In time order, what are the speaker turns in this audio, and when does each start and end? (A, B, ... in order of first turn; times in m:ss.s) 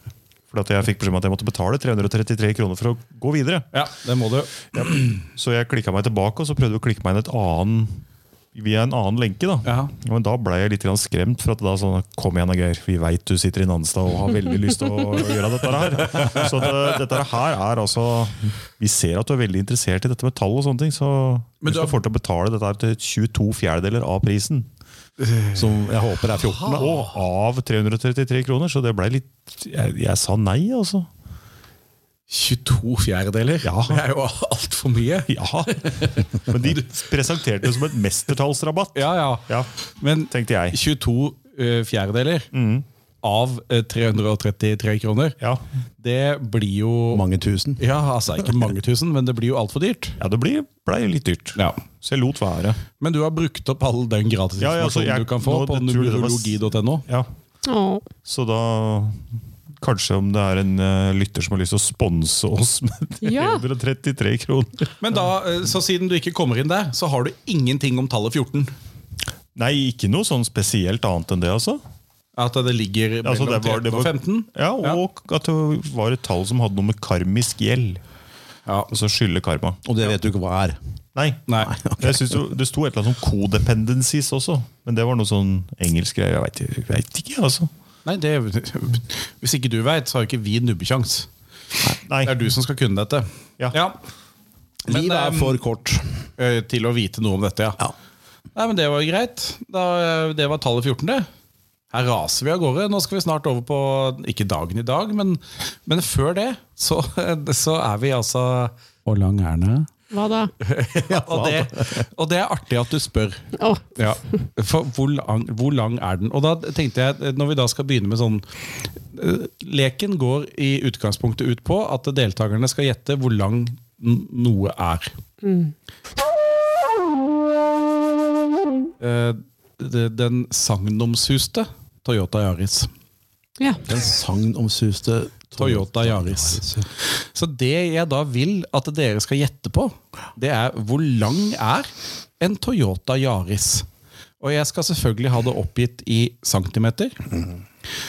0:00.5-0:03.7 A
0:03.7-0:05.2 B
0:04.7-0:08.0 A
0:08.6-0:24.7 A
0:09.6-0:09.9 B
0:16.1-0:16.5 B
0:21.6-0:22.0 B
0:25.2-0:25.8 B
0:25.5-0:26.9 C
0:26.3-0:27.0 B
0:26.7-0:31.1 A
0:32.3-0:36.8 B
0:33.6-0:34.0 A
0:35.3-0:39.7 A
0:38.9-0:42.5 B
0:40.3-0:40.8 A
0:42.5-0:42.8 A
0:43.2-0:45.4 B
0:46.0-0:47.2 B
0:47.1-0:47.8 C
0:47.8-0:50.2 B
0:50.2-0:52.8 A
0:51.6-0:51.8 B
0:53.0-0:57.0 B
0:54.6-0:57.3 A
0:57.6-0:58.1 D
0:58.2-0:59.2 A
0:59.8-1:05.2 A
1:03.2-1:03.6 D
1:05.0-1:08.7 B
1:09.6-1:11.8 A
1:12.4-1:15.0 B
1:13.2-1:18.0 A
1:18.7-1:18.9 B
1:18.9-1:19.8 A
1:19.8-1:20.8 C
1:21.2-1:27.7 A
1:21.6-1:22.4 C
1:28.0-1:31.3 B
1:32.1-1:32.4 A
1:32.2-1:34.0 B
1:34.8-1:36.2 C
1:34.9-1:35.6 B
1:36.4-1:37.8 B
1:38.5-1:41.3 B
1:41.9-1:49.9 B
1:50.1-1:50.5 D
1:50.6-1:58.4 B
1:51.0-1:52.1 C
1:53.6-1:53.9 D
1:59.1-2:05.1 B
2:05.4-2:05.7 D
2:09.0-2:12.9 B
2:13.6-2:13.9 D
2:13.8-2:16.8 C
2:15.6-2:23.9 B
2:24.4-2:27.2 B